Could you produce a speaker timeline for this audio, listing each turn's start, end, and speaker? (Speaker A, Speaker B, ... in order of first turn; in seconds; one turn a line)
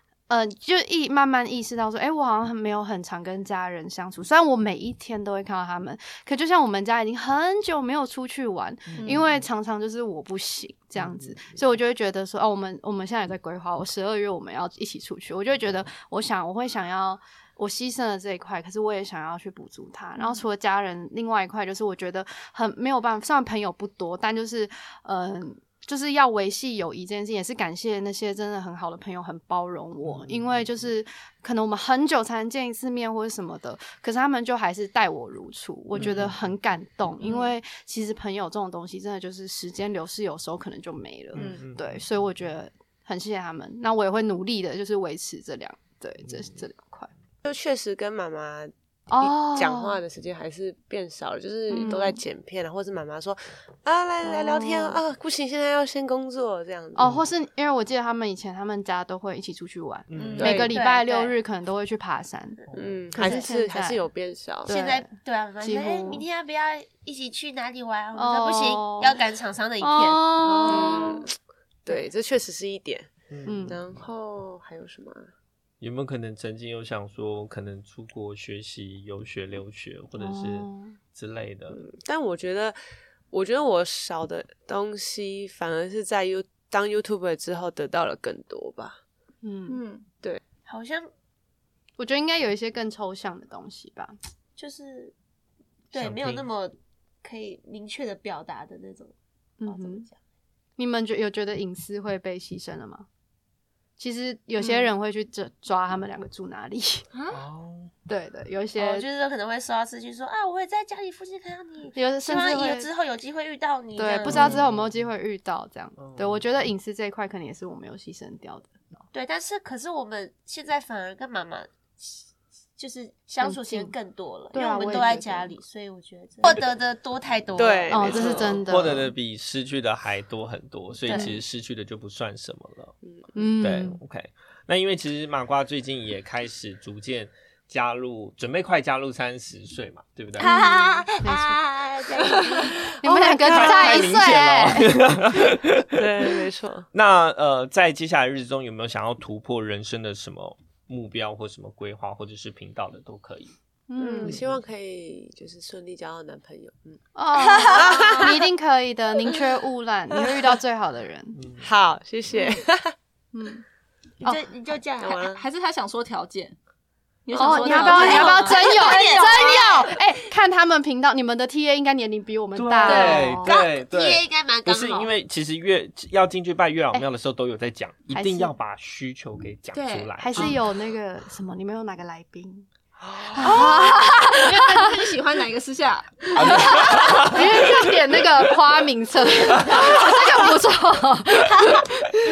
Speaker A: 0.3-47.1
Speaker B: 8.9-9.4
Speaker C: 9.0-9.2
Speaker B: 11.0-11.4
Speaker B: 30.1-30.8
Speaker B: 35.9-36.5
Speaker C: 37.2-37.5
Speaker B: 41.3-42.0
Speaker C: 41.4-41.6
Speaker D: 47.5-57.1
Speaker A: 49.1-50.0
Speaker A: 51.7-52.2
Speaker A: 54.2-55.0
Speaker A: 57.0-62.6
Speaker B: 60.1-60.6
Speaker C: 60.1-60.6
Speaker D: 60.4-60.7
Speaker E: 60.4-61.4
Speaker B: 62.7-63.2
Speaker D: 62.7-64.7
Speaker A: 63.1-64.0
Speaker A: 64.7-66.2
Speaker E: 64.7-71.2
Speaker A: 68.1-69.2
Speaker A: 69.8-71.2
Speaker D: 70.7-71.3
Speaker D: 71.9-73.1
Speaker B: 73.3-74.0
Speaker A: 73.5-73.8
Speaker D: 73.7-75.3
Speaker B: 75.8-81.8
Speaker A: 80.2-81.0
Speaker D: 81.7-82.8
Speaker D: 83.3-89.0
Speaker A: 89.4-89.8
Speaker C: 89.7-90.0
Speaker E: 90.7-91.1
Speaker A: 92.0-94.2
Speaker E: 94.6-95.1
Speaker E: 95.9-100.2
Speaker B: 95.9-96.5
Speaker A: 99.6-100.1
Speaker A: 100.8-103.1
Speaker A: 104.0-107.0
Speaker C: 107.1-107.4
Speaker B: 107.3-107.9
Speaker A: 108.1-109.1
Speaker E: 108.8-114.6
Speaker A: 111.9-112.9
Speaker A: 114.0-119.0
Speaker B: 114.3-115.1
Speaker B: 116.0-116.6
Speaker E: 119.1-128.3
Speaker A: 123.4-124.0
Speaker A: 124.5-125.5
Speaker D: 127.6-128.6
Speaker A: 127.9-129.1
Speaker B: 128.2-132.9
Speaker A: 131.1-131.4
Speaker A: 133.3-134.0
Speaker B: 133.6-140.6
Speaker E: 140.4-143.0
Speaker A: 140.4-141.6
Speaker A: 142.9-145.1
Speaker D: 143.1-144.0
Speaker B: 143.1-146.4
Speaker D: 145.9-146.9
Speaker B: 146.9-153.5
Speaker A: 153.9-154.4
Speaker D: 154.0-157.0
Speaker B: 154.2-154.6
Speaker A: 157.2-161.4
Speaker E: 157.5-158.3
Speaker D: 157.7-158.4
Speaker B: 161.4-161.7
Speaker D: 161.6-162.9
Speaker A: 163.3-163.6
Speaker E: 164.2-165.2
Speaker D: 165.0-165.4
Speaker C: 165.1-166.6
Speaker C: 167.3-169.4
Speaker A: 167.4-173.6
Speaker E: 167.6-169.9
Speaker B: 172.6-180.6
Speaker E: 172.9-175.1
Speaker A: 178.1-178.6
Speaker C: 179.7-180.4
Speaker A: 180.2-182.7
Speaker B: 183.1-183.6
Speaker A: 183.3-184.9
Speaker C: 183.7-186.7
Speaker A: 186.3-192.2
Speaker B: 186.4-187.7
Speaker B: 189.5-190.3